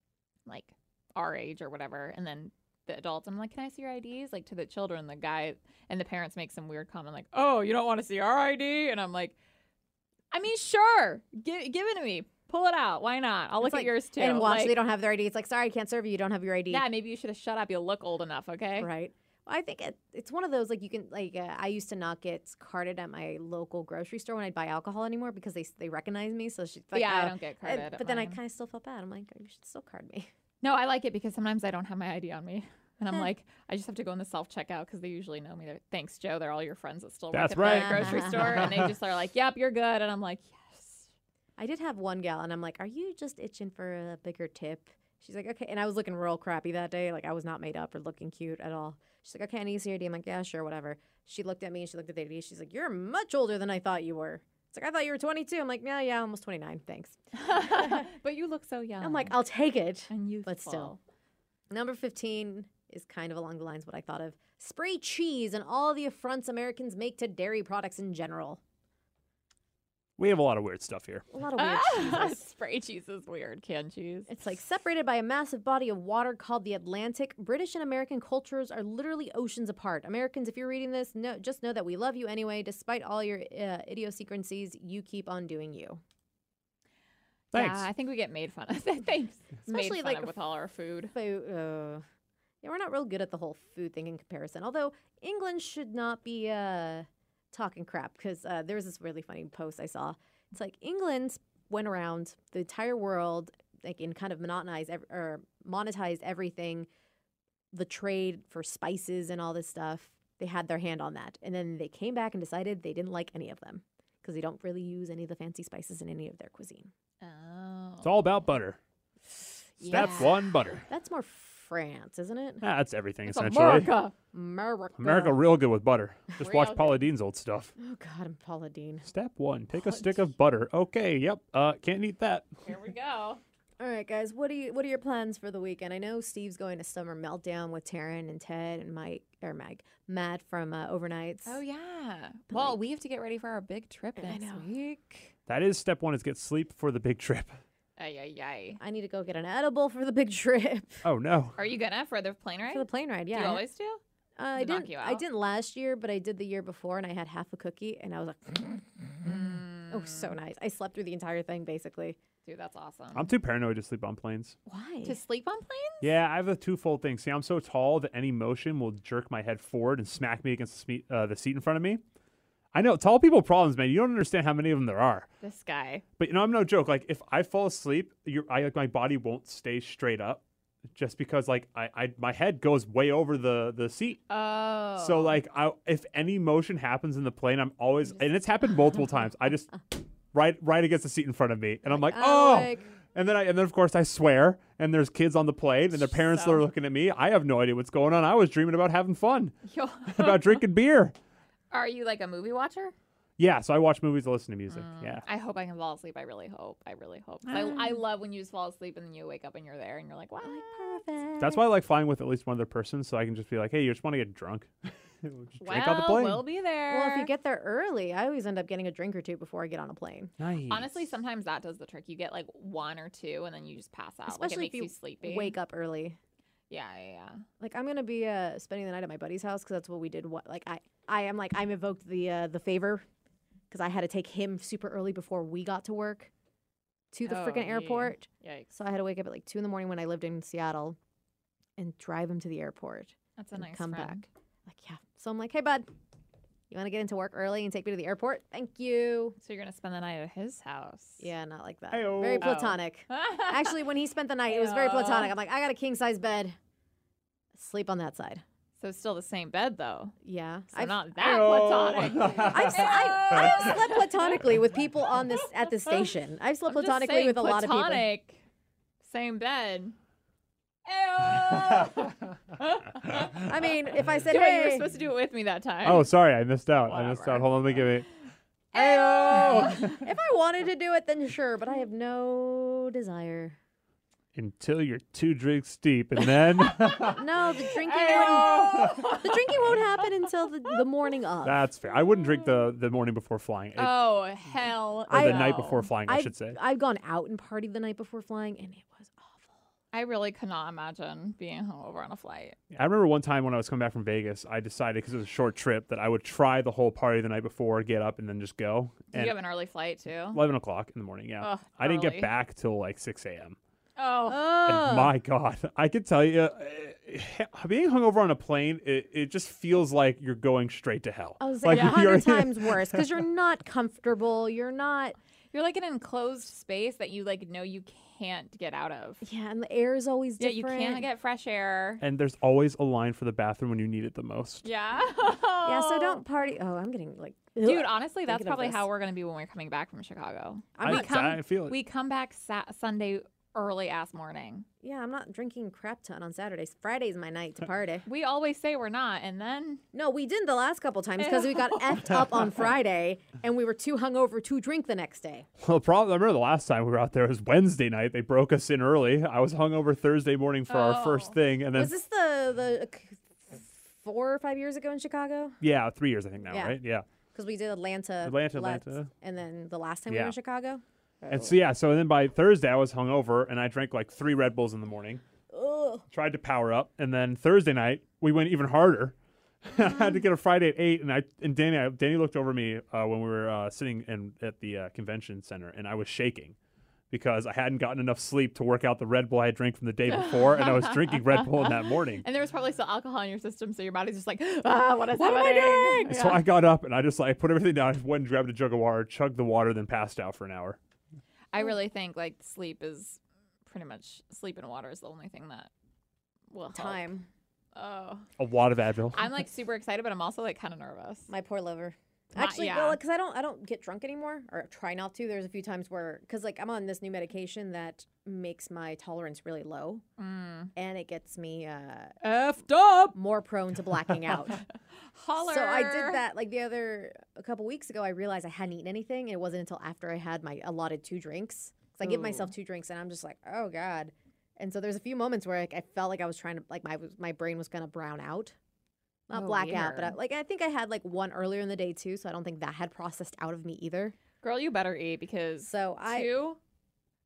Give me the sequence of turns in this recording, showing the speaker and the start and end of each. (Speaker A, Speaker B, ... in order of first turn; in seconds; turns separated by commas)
Speaker A: 0.5-9.3, Speaker A: 10.3-14.8, Speaker B: 13.6-16.9, Speaker A: 16.7-18.9, Speaker B: 18.8-30.3, Speaker A: 26.9-28.4, Speaker A: 30.6-41.1, Speaker C: 37.3-38.9, Speaker B: 37.6-38.8, Speaker B: 41.6-58.1, Speaker A: 57.3-59.4, Speaker B: 59.0-61.0, Speaker A: 60.1-61.0, Speaker B: 61.7-68.6, Speaker C: 70.2-71.3, Speaker B: 71.3-72.5, Speaker A: 71.5-74.3, Speaker B: 74.3-86.0, Speaker C: 87.5-87.9, Speaker A: 87.5-91.1, Speaker B: 89.7-90.4, Speaker B: 91.1-92.0, Speaker B: 92.6-106.9, Speaker B: 107.7-116.9, Speaker A: 117.2-118.3, Speaker C: 118.0-118.8, Speaker A: 119.8-120.3, Speaker B: 119.8-120.3, Speaker C: 119.8-120.9, Speaker B: 120.9-122.6, Speaker C: 122.6-123.9, Speaker A: 123.3-124.1, Speaker B: 124.3-125.4, Speaker C: 125.0-127.7, Speaker A: 126.4-127.0, Speaker B: 127.8-129.1, Speaker C: 129.1-132.5, Speaker A: 132.6-133.4, Speaker B: 133.8-141.6, Speaker A: 141.4-145.3, Speaker B: 142.5-142.8, Speaker B: 144.2-144.7, Speaker C: 145.5-147.6, Speaker A: 148.0-148.8, Speaker B: 148.8-151.0, Speaker C: 151.0-151.6, Speaker A: 151.6-154.0, Speaker B: 152.7-153.6, Speaker B: 154.4-162.2, Speaker A: 154.6-155.2, Speaker A: 159.2-160.3, Speaker A: 162.4-163.3, Speaker C: 163.1-164.6, Speaker B: 164.7-165.2, Speaker A: 165.1-166.1, Speaker C: 166.0-172.0, Speaker C: 172.7-175.3, Speaker A: 175.4-176.1, Speaker C: 176.2-180.4, Speaker C: 180.9-184.2, Speaker A: 184.3-185.4, Speaker C: 185.0-199.6, Speaker B: 191.9-192.8, Speaker A: 195.9-196.7, Speaker A: 199.7-200.6, Speaker C: 200.1-201.1, Speaker A: 201.7-202.9, Speaker C: 203.4-205.2, Speaker A: 204.7-211.0, Speaker B: 207.5-207.9, Speaker B: 210.4-211.7, Speaker C: 211.4-216.4, Speaker A: 215.6-217.3, Speaker B: 216.9-220.3, Speaker C: 220.4-221.1, Speaker A: 220.7-225.6, Speaker B: 224.3-226.2, Speaker A: 226.7-227.4, Speaker B: 227.6-233.1, Speaker B: 233.7-236.3, Speaker B: 237.1-241.0, Speaker A: 237.2-238.7, Speaker B: 241.8-245.9, Speaker A: 243.4-244.2, Speaker B: 246.7-249.4, Speaker A: 249.4-251.3, Speaker B: 251.2-256.6, Speaker C: 251.9-252.6, Speaker A: 252.4-253.8, Speaker A: 254.5-255.3, Speaker B: 257.6-258.4, Speaker A: 258.8-260.2, Speaker B: 260.2-261.1, Speaker A: 260.7-264.5, Speaker C: 261.2-262.9, Speaker B: 262.4-268.1, Speaker A: 265.8-266.1, Speaker A: 266.7-268.4, Speaker A: 269.0-269.9, Speaker A: 270.9-273.4, Speaker B: 273.3-274.9, Speaker A: 274.2-276.1, Speaker C: 275.8-278.1, Speaker A: 276.9-277.9, Speaker C: 278.7-280.1, Speaker A: 278.8-280.0, Speaker B: 278.8-283.6, Speaker C: 284.4-287.3, Speaker B: 287.0-291.6, Speaker C: 287.9-289.2, Speaker A: 287.9-289.3, Speaker C: 291.4-294.1, Speaker A: 293.8-295.9, Speaker C: 295.1-296.6, Speaker B: 295.1-299.5, Speaker A: 299.9-302.6, Speaker C: 302.7-309.4, Speaker A: 309.1-310.4, Speaker C: 310.3-313.6, Speaker A: 311.4-312.3, Speaker A: 314.0-314.5, Speaker B: 314.3-315.2, Speaker C: 314.6-322.8, Speaker B: 321.4-325.2, Speaker A: 321.7-322.0, Speaker A: 325.5-329.2, Speaker B: 329.2-331.1, Speaker A: 330.4-332.0, Speaker C: 332.0-334.6, Speaker A: 334.6-336.2, Speaker B: 335.6-338.9, Speaker A: 337.6-344.7, Speaker B: 340.8-341.2, Speaker C: 340.8-341.8, Speaker B: 344.8-348.1, Speaker A: 348.1-349.8, Speaker B: 349.9-355.5, Speaker A: 351.2-352.4, Speaker C: 355.6-361.9, Speaker A: 360.7-361.4, Speaker B: 361.7-365.6, Speaker C: 365.6-367.1, Speaker B: 366.5-366.8, Speaker B: 367.3-371.6, Speaker C: 368.2-369.1, Speaker C: 370.1-370.4, Speaker C: 371.3-375.2, Speaker B: 375.5-376.1, Speaker C: 376.1-386.6, Speaker C: 387.1-392.2, Speaker A: 390.1-396.4, Speaker B: 395.1-396.1, Speaker C: 396.1-400.8, Speaker A: 401.5-405.7, Speaker A: 406.5-407.1, Speaker B: 406.7-407.3, Speaker A: 407.7-408.3, Speaker C: 408.4-409.2, Speaker A: 409.1-411.3, Speaker B: 411.3-420.0, Speaker A: 412.4-413.0, Speaker A: 420.2-420.7, Speaker B: 420.8-422.2, Speaker A: 422.2-423.2, Speaker B: 423.1-424.6, Speaker A: 424.5-426.2, Speaker B: 425.4-438.6, Speaker A: 432.0-432.5, Speaker B: 439.3-444.2, Speaker A: 439.3-440.2, Speaker A: 444.4-446.6, Speaker B: 445.6-446.3